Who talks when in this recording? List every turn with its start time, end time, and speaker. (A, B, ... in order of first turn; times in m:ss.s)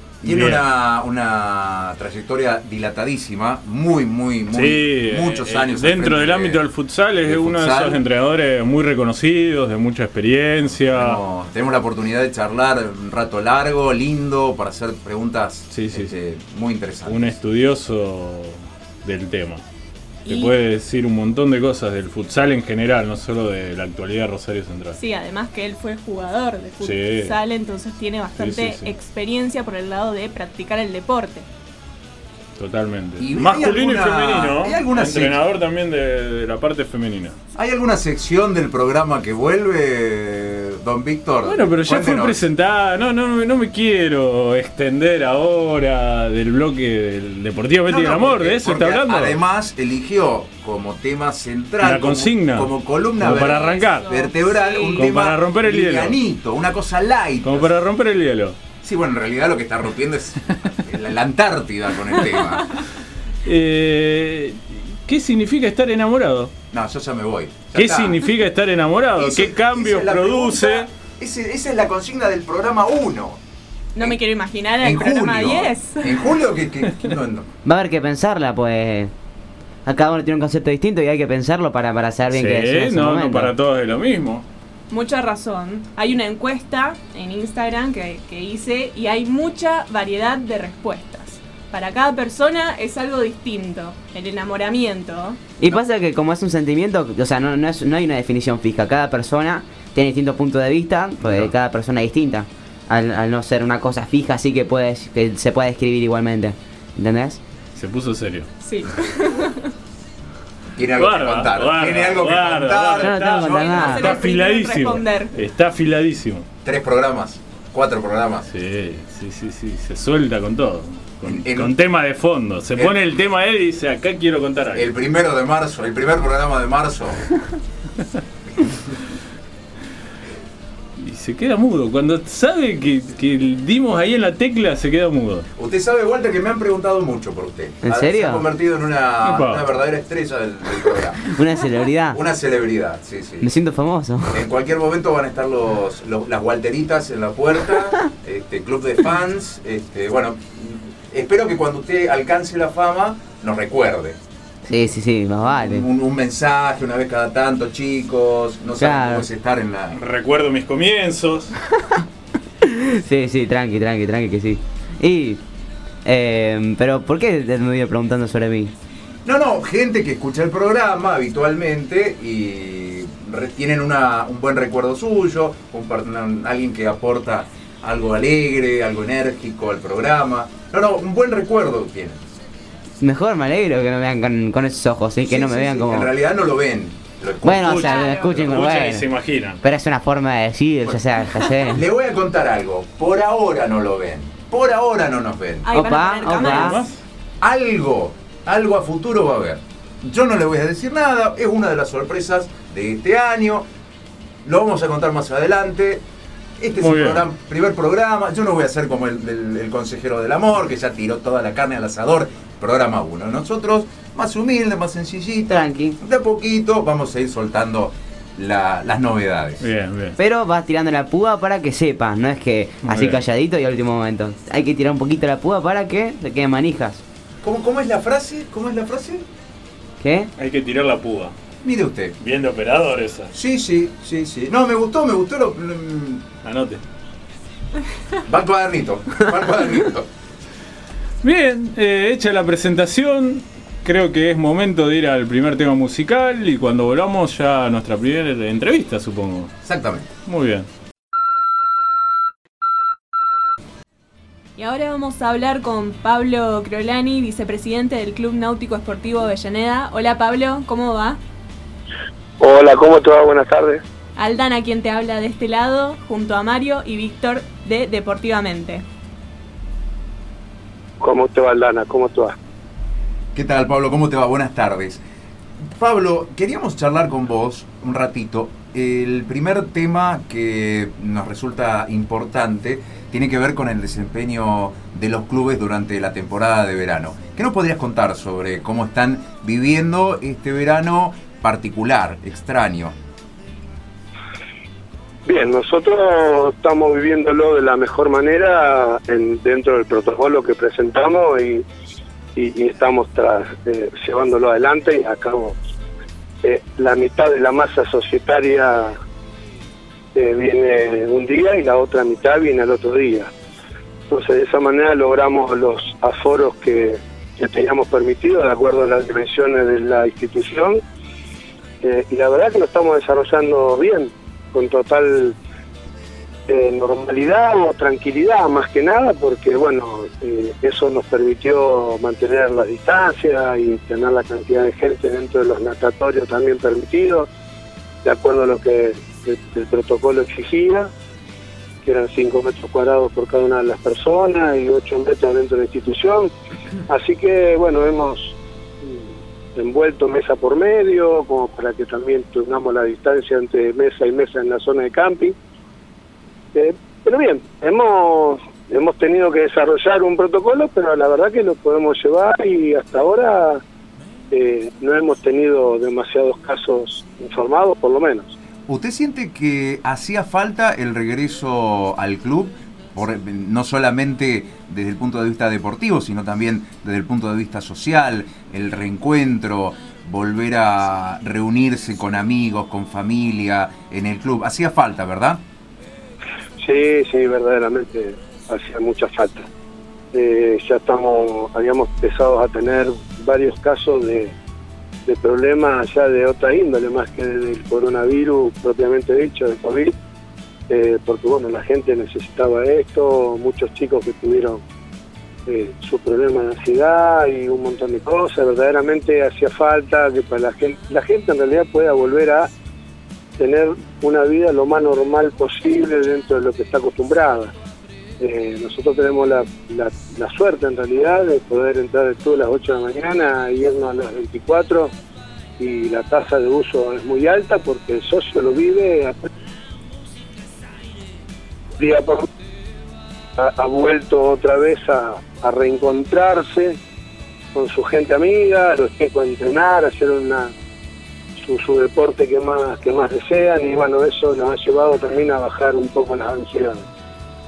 0:00.2-0:00.6 A
0:00.2-0:06.6 B
0:04.5-0:11.2 A
0:07.2-0:08.0 B
0:10.9-0:17.4 B
0:15.7-0:16.2 A
0:17.0-0:19.6 A
0:20.2-0:20.5 C
0:20.3-0:25.0 A
0:25.0-0:31.4 C
0:26.8-0:27.3 A
0:28.4-0:28.9 A
0:32.6-0:37.3 A
0:33.2-0:35.4 B
0:37.5-0:42.4 B
0:41.4-0:49.4 A
0:47.8-0:57.7 B
0:51.8-0:54.1 A
0:53.2-0:55.1 C
0:54.9-0:56.2 A
0:57.4-0:58.6 A
0:58.8-1:02.8 B
1:03.4-1:06.5 A
1:06.7-1:08.2 B
1:07.7-1:10.9 A
1:09.2-1:13.4 B
1:13.9-1:16.2 C
1:14.8-1:17.5 B
1:17.6-1:19.1 D
1:19.8-1:23.5 D
1:22.3-1:24.4 A
1:24.9-1:35.4 C
1:35.6-1:47.4 D
1:47.7-1:48.5 A
1:48.6-1:49.7 C
1:50.8-1:54.2 B
1:51.0-1:56.4 A
1:53.0-1:54.1 D
1:53.4-1:55.3 C
1:56.6-1:58.5 B
1:58.5-2:04.9 A
2:01.2-2:01.8 B
2:04.7-2:07.2 B
2:11.0-2:15.5 A
2:15.6-2:21.3 B
2:17.8-2:18.5 D
2:19.2-2:19.7 A
2:21.2-2:22.2 D
2:22.1-2:23.5 B
2:23.4-2:24.4 D
2:24.3-2:34.2 B
2:34.6-2:35.9 D
2:35.5-2:40.0 B
2:38.8-2:39.3 D
2:39.9-2:41.5 A
2:42.6-2:45.4 D
2:46.0-2:48.7 D
2:49.2-3:02.2 B
3:03.0-3:06.1 D
3:05.2-3:07.9 B
3:07.4-3:09.1 D
3:07.6-3:09.6 A
3:07.7-3:08.3 C
3:08.5-3:08.8 B
3:09.6-3:11.8 D
3:11.6-3:15.7 B
3:15.6-3:16.9 C
3:15.7-3:16.8 D
3:16.4-3:17.0 A
3:17.4-3:23.7 B
3:24.4-3:26.0 B
3:26.6-3:39.6 B
3:26.8-3:27.3 A
3:35.5-3:36.0 D
3:39.6-3:40.2 A
3:40.2-3:47.0 D
3:42.8-3:43.2 A
3:47.4-3:49.2 B
3:50.0-3:50.3 D
3:50.4-3:51.3 A
3:51.6-3:52.1 B
3:52.2-3:53.3 A
3:53.3-3:56.2 B
3:56.4-3:56.8 A
3:58.2-4:00.1 B
4:01.2-4:09.5 A
4:09.6-4:10.1 B
4:10.2-4:10.7 A
4:14.6-4:21.2 C
4:22.4-4:23.8 E
4:24.2-4:28.8 C
4:31.0-4:32.4 E
4:33.3-4:35.0 B
4:35.8-4:53.0 B
4:55.2-5:01.6 E
5:02.4-5:05.6 E
5:06.4-5:08.9 E
5:10.1-5:13.3 E
5:14.1-5:20.8 E
5:21.8-5:25.3 E
5:26.5-5:37.3 E
5:38.0-5:40.9 E
5:41.8-5:46.3 E
5:46.9-5:48.3 E
5:49.5-5:55.3 E
5:56.5-6:03.6 E
6:04.3-6:08.3 E
6:08.7-6:25.4 B
6:26.6-6:29.4 E
6:30.1-6:34.3 E
6:35.0-6:39.9 E
6:40.7-6:44.6 E
6:45.5-6:52.5 E
6:53.4-6:57.5 E
6:58.2-7:04.9 E
7:05.6-7:09.3 E
7:11.8-7:12.2 E
7:13.4-7:16.8 E
7:17.5-7:20.4 E
7:21.5-7:26.7 E